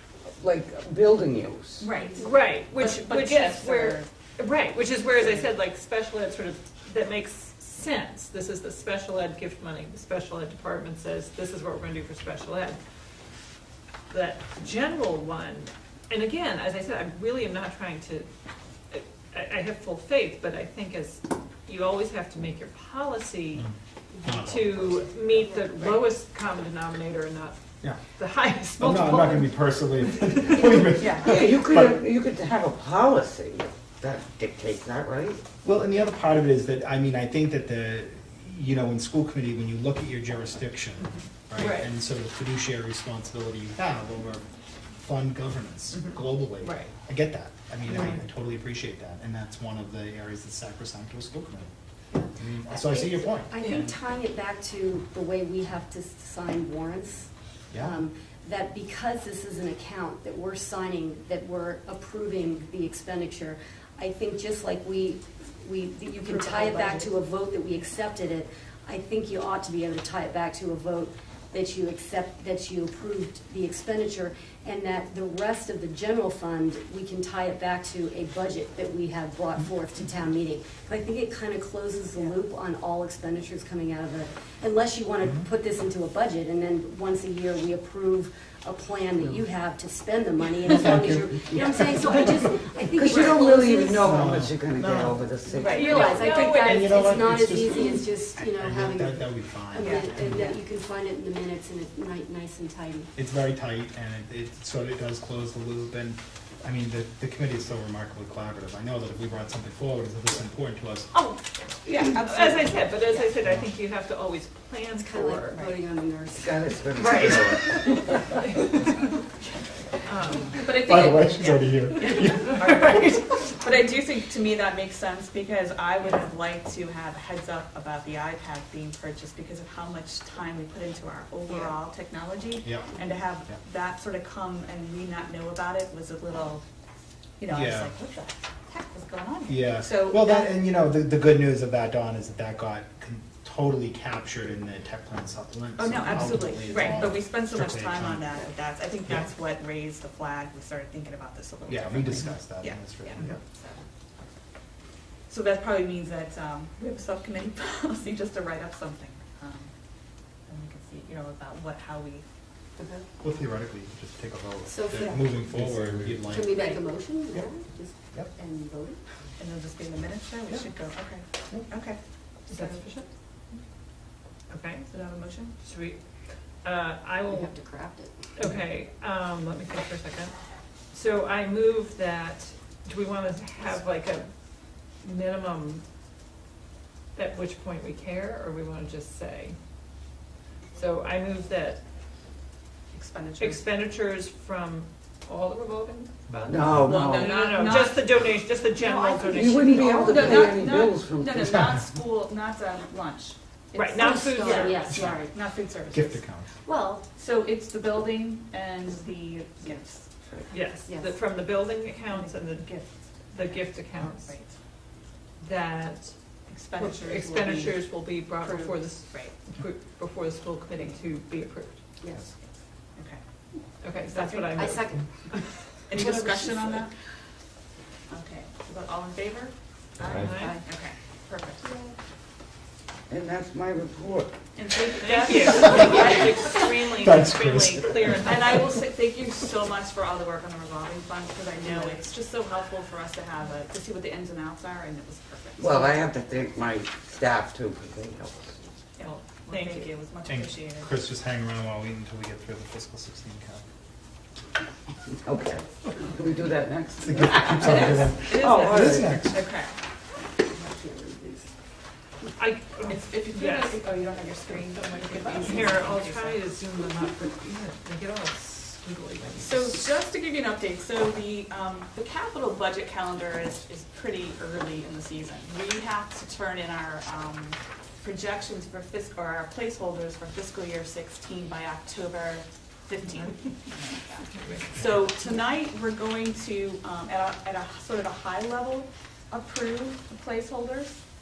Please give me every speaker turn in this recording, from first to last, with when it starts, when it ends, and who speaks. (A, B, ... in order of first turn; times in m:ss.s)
0:00.4-0:01.9 A
0:01.8-0:04.1 B
0:02.2-0:12.8 C
0:05.2-0:05.5 B
0:14.1-0:18.3 C
0:18.9-0:23.7 C
0:24.2-0:25.2 D
0:24.4-0:27.6 C
0:28.1-0:30.9 C
0:28.8-0:32.0 D
0:31.0-0:31.6 B
0:31.2-0:35.4 A
0:35.6-0:44.4 D
0:41.6-0:41.9 C
0:45.0-0:51.7 D
0:46.6-0:46.9 C
0:52.1-1:34.5 E
0:52.3-0:53.9 D
0:53.6-0:53.9 C
0:57.7-0:58.0 D
1:30.7-1:32.6 D
1:32.9-1:35.9 A
1:34.0-1:35.2 D
1:35.5-1:43.1 E
1:35.6-1:36.6 B
1:35.8-1:37.0 C
1:35.9-1:40.5 D
1:39.7-1:40.2 B
1:43.1-1:51.1 D
1:51.8-1:55.6 C
1:51.8-1:53.3 B
1:53.4-1:53.7 D
1:54.9-1:57.1 E
1:56.4-1:57.9 A
1:57.0-1:59.1 C
2:00.1-2:00.7 C
2:00.5-2:16.6 B
2:00.6-2:03.3 D
2:02.0-2:02.4 C
2:12.6-2:12.9 D
2:17.4-2:20.5 B
2:17.5-2:17.9 D
2:19.5-2:28.3 D
2:25.8-2:33.8 B
2:29.0-2:29.3 D
2:31.6-2:33.4 D
2:35.3-2:39.7 B
2:40.5-2:42.2 B
2:42.8-2:43.0 E
2:43.2-2:46.6 D
2:44.7-2:45.4 E
2:46.2-2:49.0 E
2:49.4-2:52.8 B
2:52.5-2:53.1 C
2:54.5-2:54.9 C
2:54.9-2:55.5 B
2:55.6-2:56.0 C
2:56.6-2:57.5 C
2:57.3-2:58.3 E
2:58.4-3:00.3 C
3:00.9-3:04.3 C
3:05.0-3:05.8 C
3:07.1-3:09.6 C
3:10.7-3:11.8 C
3:12.9-3:13.6 B
3:13.4-3:20.5 C
3:16.3-3:16.9 D
3:16.5-3:17.4 A
3:16.7-3:30.1 B
3:19.3-3:21.6 A
3:21.5-3:21.8 D
3:23.7-3:25.0 C
3:23.9-3:25.3 E
3:24.9-3:25.2 D
3:25.9-3:26.5 D
3:26.7-3:27.0 E
3:30.5-3:34.3 C
3:30.8-3:31.1 E
3:32.1-3:34.5 B
3:35.4-3:36.1 C
3:36.5-3:37.9 B
3:36.7-3:41.8 C
3:38.4-3:39.3 B
3:42.0-3:42.3 E
3:42.9-3:43.2 B
3:43.8-3:46.0 C
3:44.1-3:44.6 B
3:44.5-3:45.1 E
3:45.9-3:46.9 B
3:46.0-3:46.6 E
3:48.1-3:51.7 B
3:50.1-3:50.6 C
3:50.3-3:50.6 E
3:51.6-3:51.9 E
3:53.1-3:54.4 A
3:54.6-3:56.9 B
3:55.0-3:58.6 C
3:55.6-3:56.0 D
3:56.9-3:58.5 D
3:58.2-4:06.0 B
4:01.6-4:02.0 E
4:05.6-4:08.6 A
4:09.0-4:10.9 B
4:09.0-4:09.9 C
4:10.2-4:13.6 D
4:15.2-4:19.2 A
4:17.0-4:19.4 D
4:17.5-4:19.7 B
4:18.2-4:19.1 C
4:20.4-4:21.5 E
4:22.4-4:23.8 C
4:22.9-4:26.4 B
4:25.1-4:29.8 C
4:29.4-4:51.0 B
4:44.3-4:44.8 C